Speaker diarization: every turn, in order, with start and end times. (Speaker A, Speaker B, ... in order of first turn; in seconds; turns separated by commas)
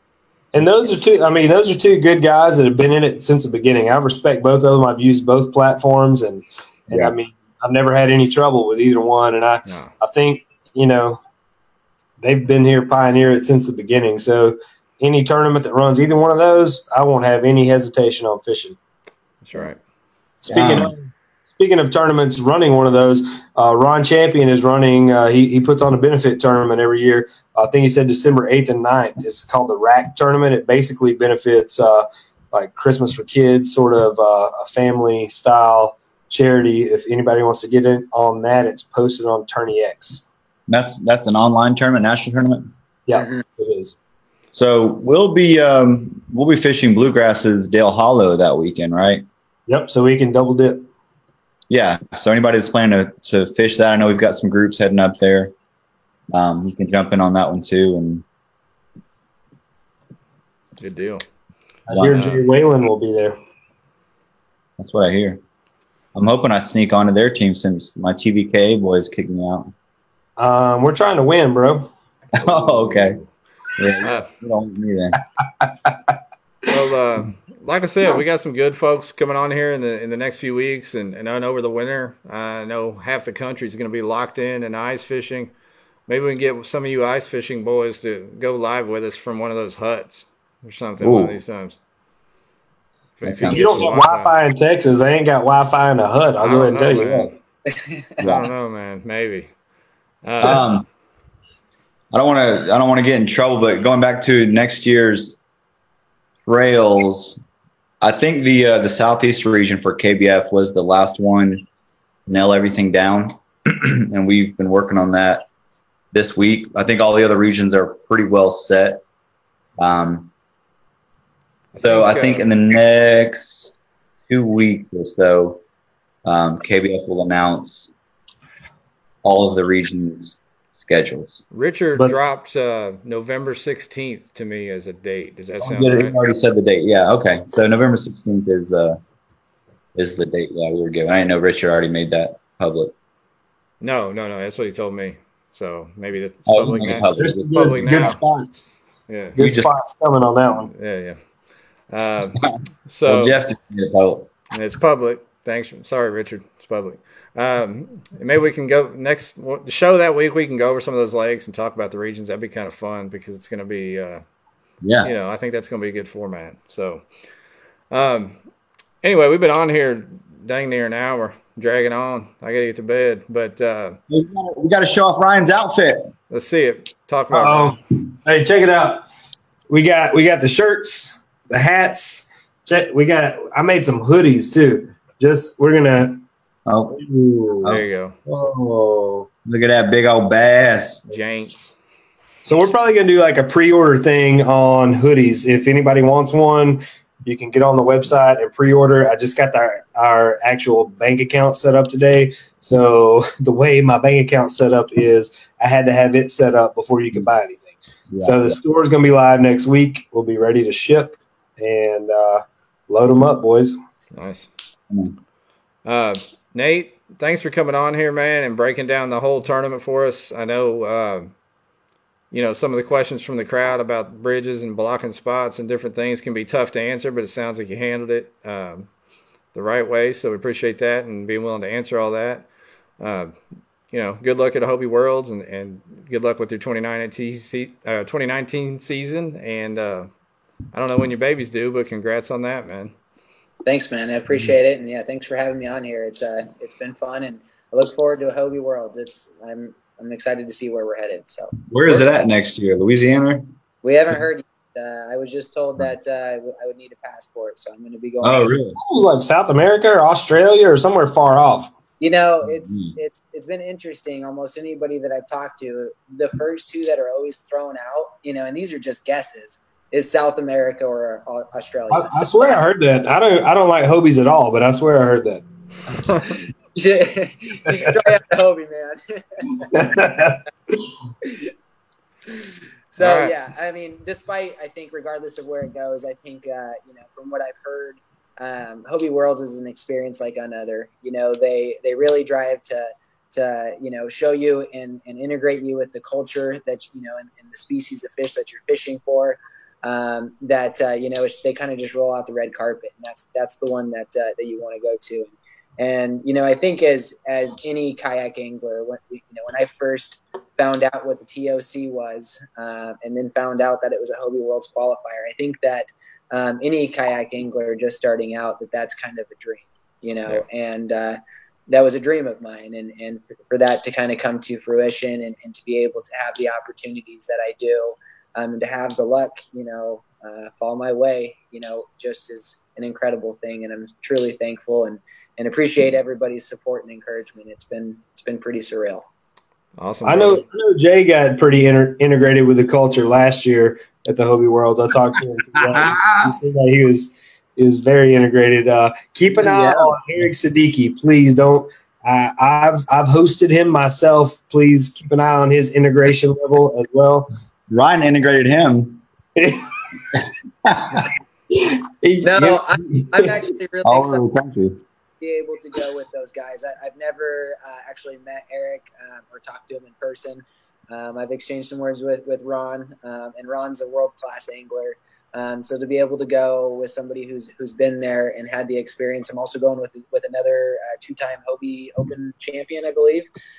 Speaker A: 0.5-11.2, Speaker B: 6.9-7.2, Speaker C: 9.7-9.9, Speaker A: 12.2-18.8, Speaker C: 19.4-19.8, Speaker A: 20.4-40.2, Speaker B: 20.5-20.9, Speaker B: 40.7-42.7, Speaker A: 43.1-43.9, Speaker D: 43.1-43.4, Speaker B: 44.5-49.2, Speaker A: 49.7-50.8, Speaker B: 51.7-55.5, Speaker B: 56.3-58.2, Speaker C: 60.8-61.2, Speaker B: 61.9-62.4, Speaker A: 61.9-63.3, Speaker B: 64.8-65.4, Speaker B: 66.1-69.7, Speaker A: 70.4-71.9, Speaker B: 72.3-73.2, Speaker C: 72.4-73.3, Speaker B: 73.8-75.2, Speaker C: 74.0-74.3, Speaker C: 76.7-85.5, Speaker C: 86.1-91.8, Speaker B: 91.0-91.4, Speaker C: 93.2-94.4, Speaker B: 93.2-94.0, Speaker A: 93.4-97.3, Speaker C: 96.4-97.3, Speaker B: 98.2-98.5, Speaker C: 98.2-99.5, Speaker C: 100.2-100.7, Speaker B: 100.4-100.8, Speaker B: 102.1-105.3, Speaker B: 106.5-107.4, Speaker B: 108.0-111.6, Speaker B: 112.3-115.5, Speaker B: 116.1-119.0, Speaker B: 119.8-120.3, Speaker C: 121.7-122.5, Speaker B: 121.8-123.7, Speaker B: 124.3-125.6, Speaker B: 126.2-127.9, Speaker B: 129.2-131.4, Speaker C: 131.5-136.1, Speaker B: 135.6-139.0, Speaker B: 139.9-142.9, Speaker C: 143.8-148.2, Speaker B: 146.5-148.2, Speaker A: 147.2-148.7, Speaker C: 149.1-149.4, Speaker A: 149.3-150.7, Speaker B: 149.4-149.7, Speaker C: 150.7-151.2, Speaker C: 151.9-153.4, Speaker B: 153.1-154.3, Speaker C: 154.5-164.2, Speaker B: 164.8-165.1, Speaker C: 165.0-167.0, Speaker C: 167.9-168.4, Speaker C: 169.0-174.0, Speaker B: 174.1-176.1, Speaker C: 176.3-177.8, Speaker A: 177.3-179.0, Speaker A: 179.7-186.2, Speaker B: 186.7-187.0, Speaker A: 186.9-187.7, Speaker C: 187.7-188.2, Speaker A: 188.3-189.2, Speaker B: 189.4-191.1, Speaker C: 191.1-191.7, Speaker A: 192.4-213.8, Speaker B: 208.1-208.6, Speaker C: 214.1-214.5, Speaker B: 214.9-215.2, Speaker C: 215.8-221.3, Speaker C: 222.3-228.9, Speaker C: 229.5-232.5, Speaker C: 233.0-233.3, Speaker C: 233.9-240.1, Speaker C: 240.7-242.9, Speaker D: 243.7-252.1, Speaker B: 251.7-253.4, Speaker D: 253.8-258.5, Speaker B: 258.2-258.8, Speaker A: 258.8-261.7, Speaker D: 262.0-272.3, Speaker B: 262.5-262.9, Speaker A: 271.9-275.4, Speaker D: 276.7-279.7, Speaker A: 279.7-280.4, Speaker D: 281.2-281.5, Speaker D: 282.9-339.1, Speaker C: 283.0-283.3, Speaker C: 339.8-340.4, Speaker A: 340.0-357.3, Speaker B: 345.7-346.3, Speaker B: 349.4-349.9, Speaker B: 357.7-359.0, Speaker A: 359.4-360.2, Speaker B: 360.1-361.1, Speaker A: 361.5-363.4, Speaker D: 362.2-364.2, Speaker B: 363.8-364.8, Speaker D: 365.2-383.3